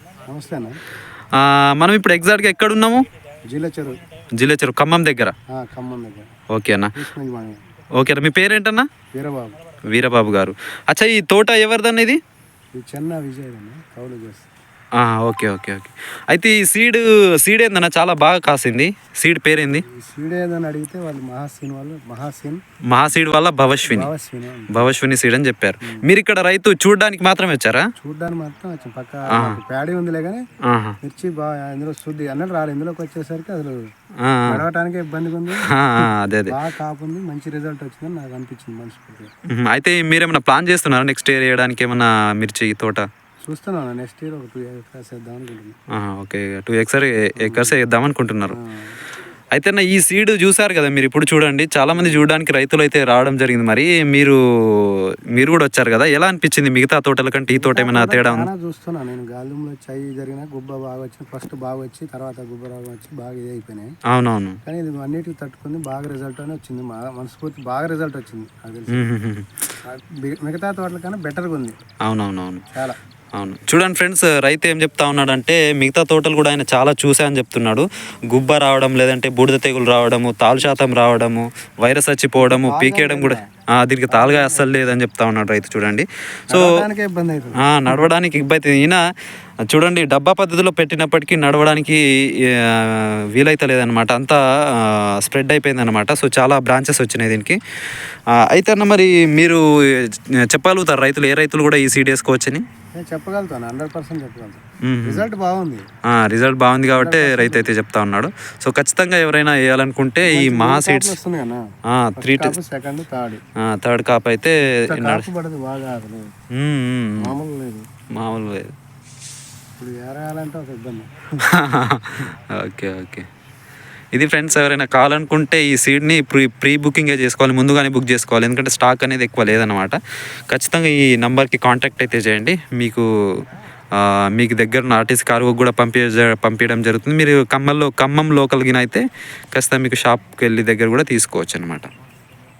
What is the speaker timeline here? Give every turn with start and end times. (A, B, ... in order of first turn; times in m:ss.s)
0:00.3-0:00.8 A
0:01.4-0:03.0 B
0:03.5-0:04.0 A
0:04.4-0:05.3 B
0:05.5-0:06.3 A
0:06.5-0:06.9 B
0:06.9-0:07.6 A
0:08.0-0:08.9 B
0:09.1-0:09.6 A
0:09.9-0:12.2 B
0:12.8-0:14.5 A
0:15.0-0:19.8 B
0:19.9-0:22.6 A
0:22.9-0:24.1 B
0:23.8-0:24.9 A
0:24.7-0:27.8 B
0:28.0-0:30.4 A
0:30.7-0:31.0 B
0:31.0-0:33.7 A
0:34.2-0:34.6 B
0:34.5-0:39.3 A
0:35.7-0:36.5 B
0:39.5-0:43.0 B
0:43.4-0:45.8 A
0:45.9-0:48.5 B
0:47.4-0:47.8 A
0:48.5-0:48.9 A
0:49.5-0:58.5 B
0:52.0-0:52.2 A
0:57.6-1:03.9 A
1:04.1-1:04.6 B
1:04.6-1:09.0 A
1:08.9-1:09.6 B
1:09.9-1:11.7 A
1:12.0-1:12.6 B
1:13.4-1:26.7 B
1:22.4-1:23.4 A
1:24.1-1:24.7 A
1:26.5-1:28.0 A
1:27.6-1:29.0 B
1:29.7-1:37.6 B
1:38.4-1:42.6 B
1:43.0-1:45.8 A
1:44.8-1:45.2 B
1:46.1-1:51.1 B
1:46.9-1:47.7 A
1:50.2-1:51.6 A
1:51.9-1:52.6 B
1:52.2-1:53.4 A
1:53.6-1:55.3 B
1:54.9-1:56.3 A
1:56.5-1:57.3 B
1:57.2-1:57.8 A
1:58.2-1:58.7 B
1:59.8-2:01.4 A
2:01.5-2:03.2 B
2:04.1-2:10.0 B
2:10.5-2:13.0 B
2:13.9-2:21.9 B